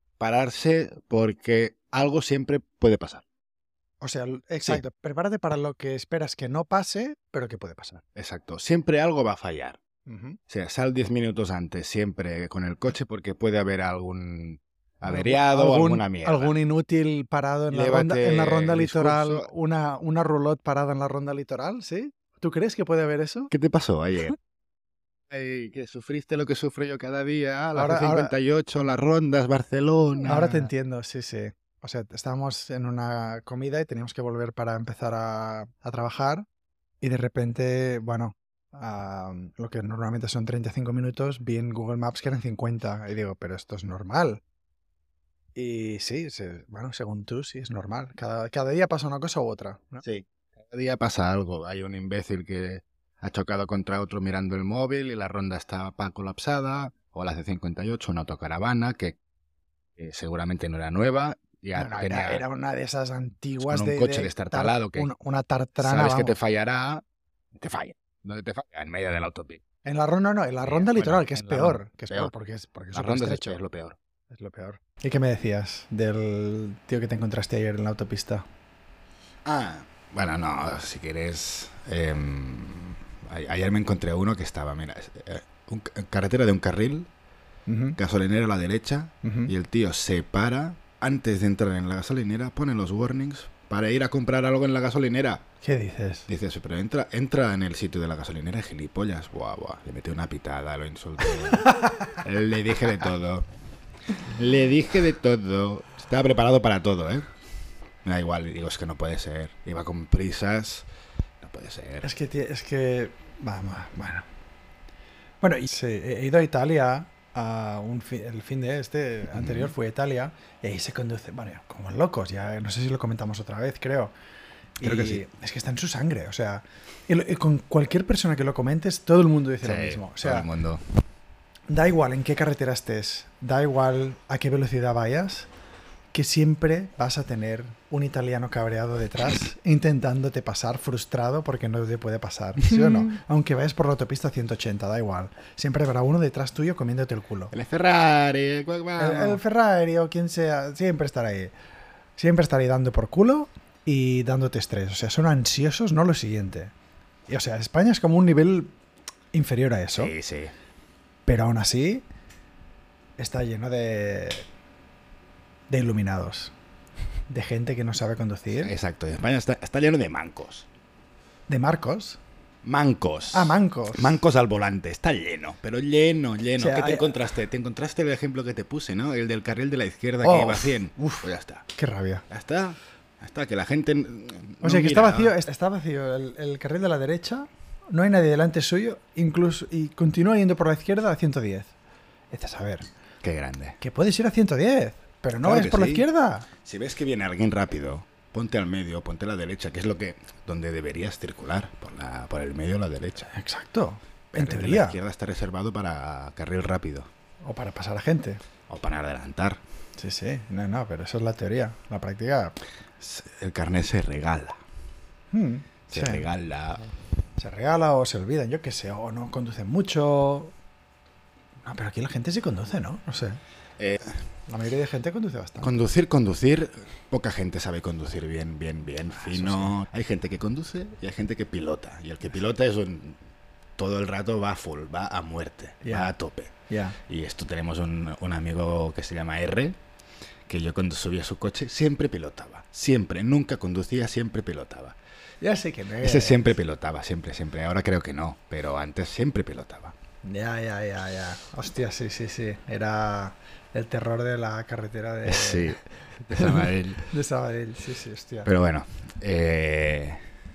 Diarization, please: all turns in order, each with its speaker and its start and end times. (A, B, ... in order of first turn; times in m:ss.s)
0:00.2-0:03.2 A
0:04.0-0:08.0 B
0:08.2-0:09.8 A
0:10.1-0:10.4 B
0:10.5-0:16.5 A
0:15.1-0:23.5 B
0:17.7-0:19.5 A
0:23.5-0:24.4 A
0:25.3-0:30.7 A
0:27.7-0:28.3 B
0:30.2-0:36.4 B
0:37.0-0:44.4 B
0:45.5-0:50.0 B
0:50.0-0:59.2 A
1:00.0-1:02.4 A
1:01.7-1:06.4 B
1:03.6-1:05.1 A
1:05.8-1:07.0 A
1:07.6-1:09.6 A
1:09.8-1:13.6 B
1:10.6-1:12.3 A
1:12.9-1:14.0 A
1:14.3-1:18.4 B
1:19.4-1:27.1 A
1:27.7-1:28.0 B
1:28.0-1:35.4 A
1:29.2-1:29.5 B
1:35.6-1:36.3 B
1:36.3-1:43.5 A
1:44.2-1:47.3 A
1:48.0-1:50.8 A
1:51.4-1:52.1 A
1:52.0-1:54.2 B
1:55.4-2:04.1 B
1:59.3-1:59.7 A
2:04.8-2:10.5 B
2:04.8-2:05.2 A
2:09.6-2:10.8 A
2:11.7-2:15.5 B
2:16.1-2:27.5 B
2:22.6-2:23.1 A
2:27.5-2:29.4 A
2:29.0-2:31.5 B
2:32.2-2:36.7 B
2:37.3-2:38.7 B
2:39.3-2:40.1 B
2:39.9-2:40.5 A
2:41.2-2:42.0 B
2:43.2-2:44.4 B
2:45.7-2:46.5 B
2:47.3-2:48.7 B
2:48.6-2:50.7 A
2:51.5-2:52.2 B
2:52.6-3:01.7 A
2:53.3-2:54.1 B
2:56.6-2:57.2 B
3:00.2-3:01.2 B
3:01.7-3:02.2 B
3:02.3-3:05.3 A
3:04.6-3:11.7 B
3:12.3-3:12.9 B
3:13.2-3:13.8 A
3:13.8-3:16.5 B
3:15.4-3:16.0 A
3:16.6-3:23.3 A
3:23.3-3:25.0 B
3:24.3-3:27.1 A
3:27.4-3:28.4 B
3:28.7-3:29.6 A
3:30.0-3:32.6 B
3:33.0-3:34.6 A
3:35.3-3:36.2 B
3:35.9-3:36.9 A
3:37.4-3:40.5 B
3:41.6-3:43.4 B
3:43.8-3:44.2 A
3:44.5-3:45.7 B
3:45.6-3:53.2 A
3:49.1-3:49.7 B
3:53.8-3:56.5 A
3:55.8-3:56.1 B
3:56.7-3:57.0 B
3:57.0-3:59.8 A
4:00.5-4:05.0 A
4:05.4-4:06.5 B
4:06.0-4:09.9 A
4:10.2-4:18.5 B
4:15.2-4:17.1 A
4:18.4-4:20.2 A